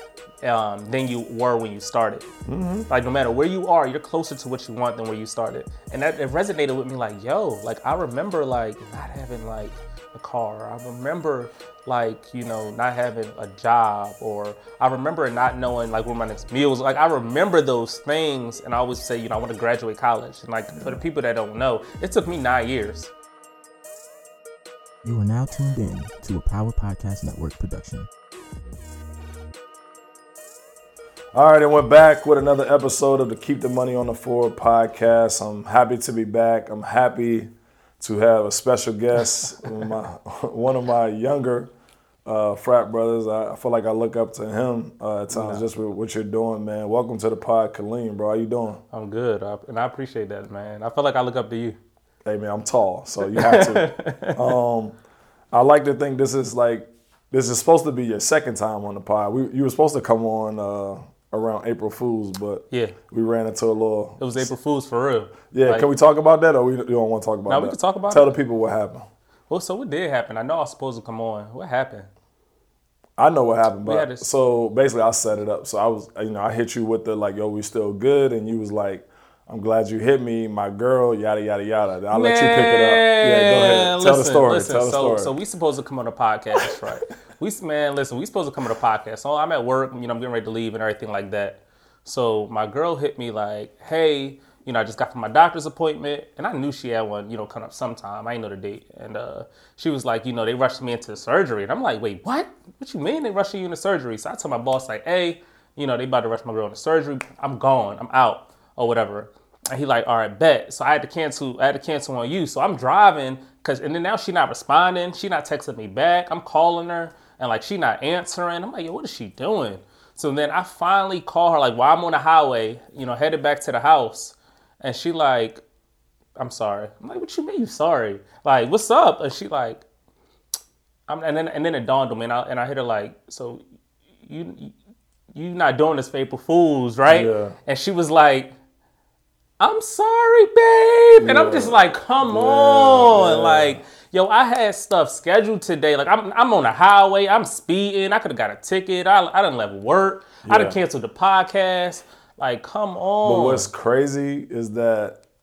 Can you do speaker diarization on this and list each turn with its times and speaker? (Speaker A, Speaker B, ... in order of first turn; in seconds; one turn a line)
Speaker A: 0.4-2.3
Speaker B: 2.5-2.9
Speaker A: 2.9-23.1
Speaker B: 20.7-21.0
Speaker C: 25.0-28.1
Speaker B: 31.3-41.7
Speaker B: 42.2-48.8
Speaker A: 45.3-45.6
Speaker A: 48.9-51.8
Speaker B: 52.2-55.0
Speaker A: 53.2-54.6
Speaker B: 55.5-64.5
Speaker A: 62.7-63.0
Speaker A: 64.2-65.9
Speaker B: 65.5-69.1
Speaker A: 67.5-68.3
Speaker A: 69.5-72.1
Speaker B: 73.2-85.3
Speaker A: 73.8-74.3
Speaker A: 82.1-125.6
Speaker A: 126.4-129.8
Speaker A: 131.1-133.6
Speaker A: 134.2-134.7
Speaker A: 135.3-138.5
Speaker B: 137.1-137.6
Speaker A: 139.6-153.7
Speaker B: 141.2-143.8
Speaker B: 150.4-150.8
Speaker B: 153.2-155.2